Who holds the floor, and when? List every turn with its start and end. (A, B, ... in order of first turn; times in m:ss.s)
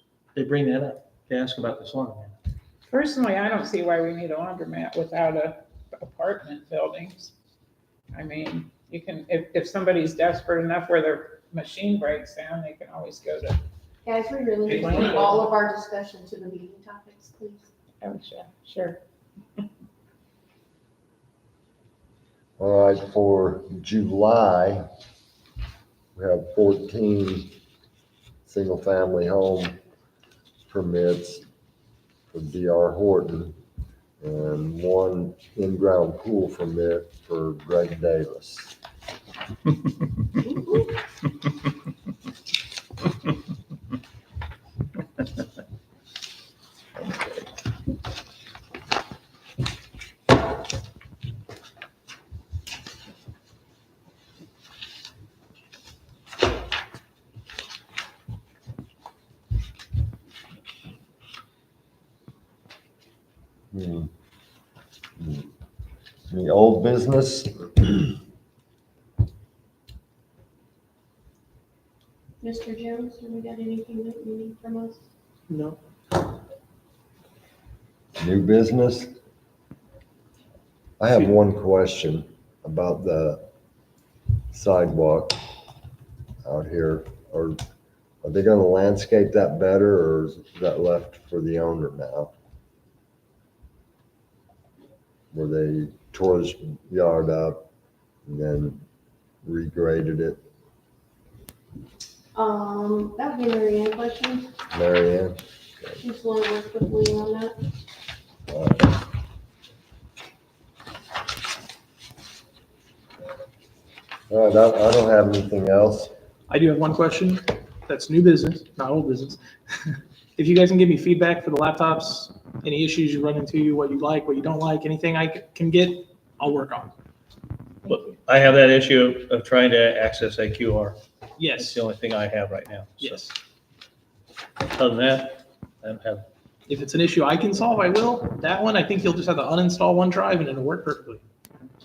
0:00.3-0:02.3 A
0:02.9-0:07.3 B
0:08.1-0:13.6 B
0:14.0-0:17.7 C
0:18.0-0:19.0 B
0:22.6-0:24.8 D
0:26.1-0:27.5 D
0:28.4-0:29.8 D
0:30.6-0:31.4 D
0:32.3-0:33.5 D
0:34.2-0:38.7 D
0:40.4-0:40.9 C
1:03.7-1:04.1 D
1:05.2-1:05.5 D
1:06.3-1:08.1 D
1:12.4-1:15.0 C
1:15.5-1:15.8 E
1:18.2-1:19.1 D
1:21.0-1:23.4 D
1:24.5-1:25.4 D
1:26.4-1:27.6 D
1:28.2-1:32.3 D
1:35.3-1:37.7 D
1:38.2-1:38.8 D
1:39.4-1:40.4 D
1:42.3-1:44.5 C
1:44.7-1:46.0 D
1:46.0-1:47.6 C
1:48.5-1:48.9 D
1:54.3-1:56.1 D
1:56.5-2:06.9 E
2:07.9-2:11.0 A
2:11.4-2:11.8 E
2:11.5-2:13.3 A
2:13.0-2:13.3 E
2:14.8-2:16.2 A
2:16.7-2:21.2 E